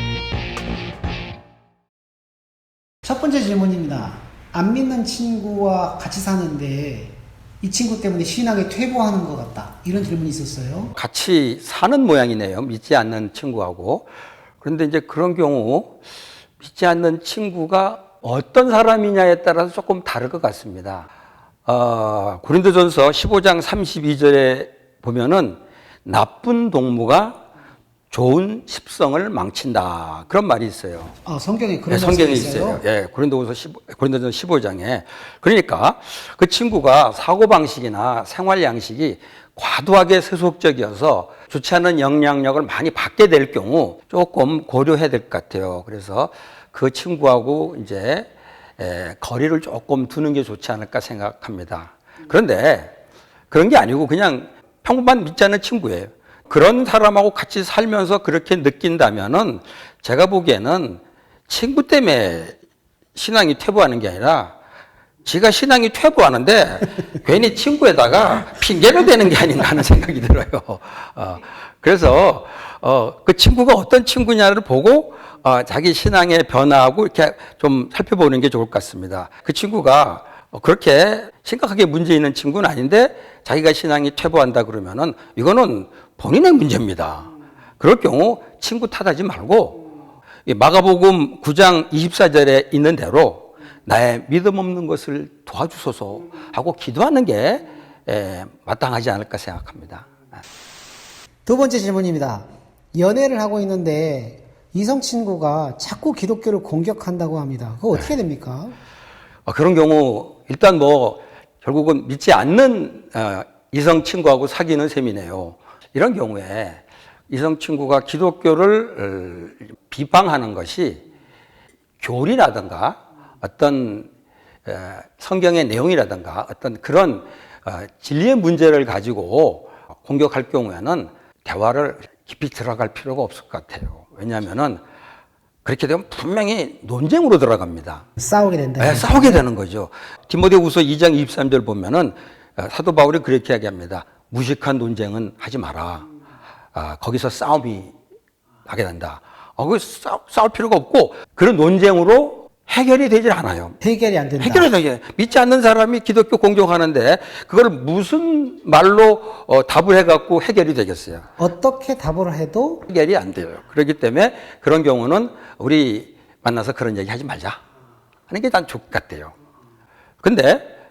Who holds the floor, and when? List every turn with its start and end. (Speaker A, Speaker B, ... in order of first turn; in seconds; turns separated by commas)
Speaker A: 3.0-10.9, Speaker B: 10.9-14.1, Speaker B: 14.6-16.0, Speaker B: 16.6-21.1, Speaker B: 21.6-27.4, Speaker B: 28.1-31.1, Speaker A: 31.2-32.8, Speaker B: 31.9-52.9, Speaker B: 53.5-62.6, Speaker B: 63.1-64.5, Speaker B: 65.2-89.8, Speaker B: 90.5-100.1, Speaker A: 101.5-108.7, Speaker B: 109.5-121.0, Speaker B: 122.0-124.1, Speaker B: 124.7-134.8, Speaker B: 135.6-138.1, Speaker A: 138.2-139.4, Speaker B: 138.8-146.1, Speaker B: 146.7-147.9, Speaker B: 148.7-153.8, Speaker A: 153.8-154.7, Speaker B: 154.4-161.2, Speaker A: 161.4-162.8, Speaker B: 162.9-167.6, Speaker B: 168.3-169.3, Speaker B: 170.2-170.7